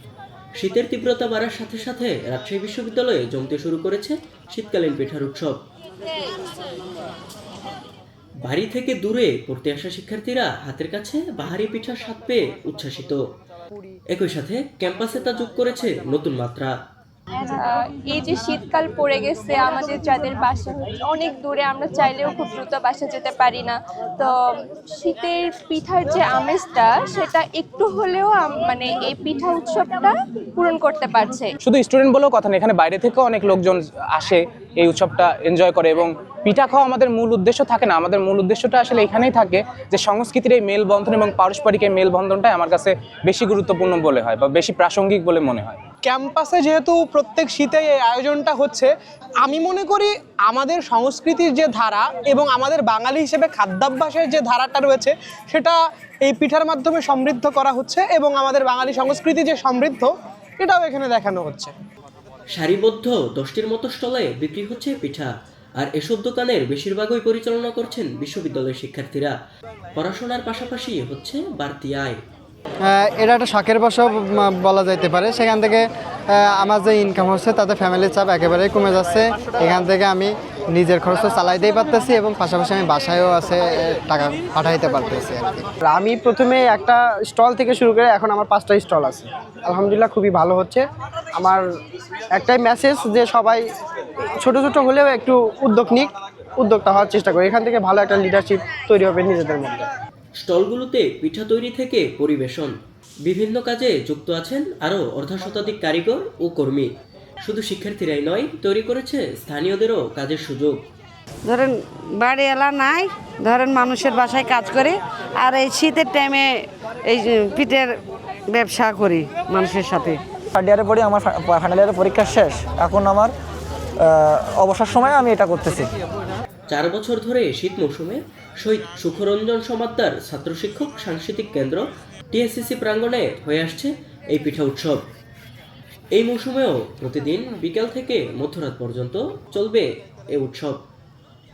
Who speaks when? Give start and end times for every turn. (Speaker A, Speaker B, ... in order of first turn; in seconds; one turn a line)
Speaker A: 0.6-5.6
Speaker A: 8.4-13.2
Speaker A: 14.1-16.8
Speaker B: 17.4-31.5
Speaker C: 31.6-45.9
Speaker D: 46.0-61.7
Speaker A: 62.5-69.3
Speaker A: 70.0-72.2
Speaker E: 72.8-85.7
Speaker F: 85.8-91.7
Speaker F: 92.3-93.6
Speaker F: 94.4-99.9
Speaker A: 100.4-102.7
Speaker A: 103.2-106.9
Speaker A: 107.4-110.8
Speaker G: 111.5-117.9
Speaker G: 118.5-120.2
Speaker H: 120.5-123.3
Speaker H: 124.0-125.9
Speaker A: 126.7-135.0
Speaker A: 136.2-140.8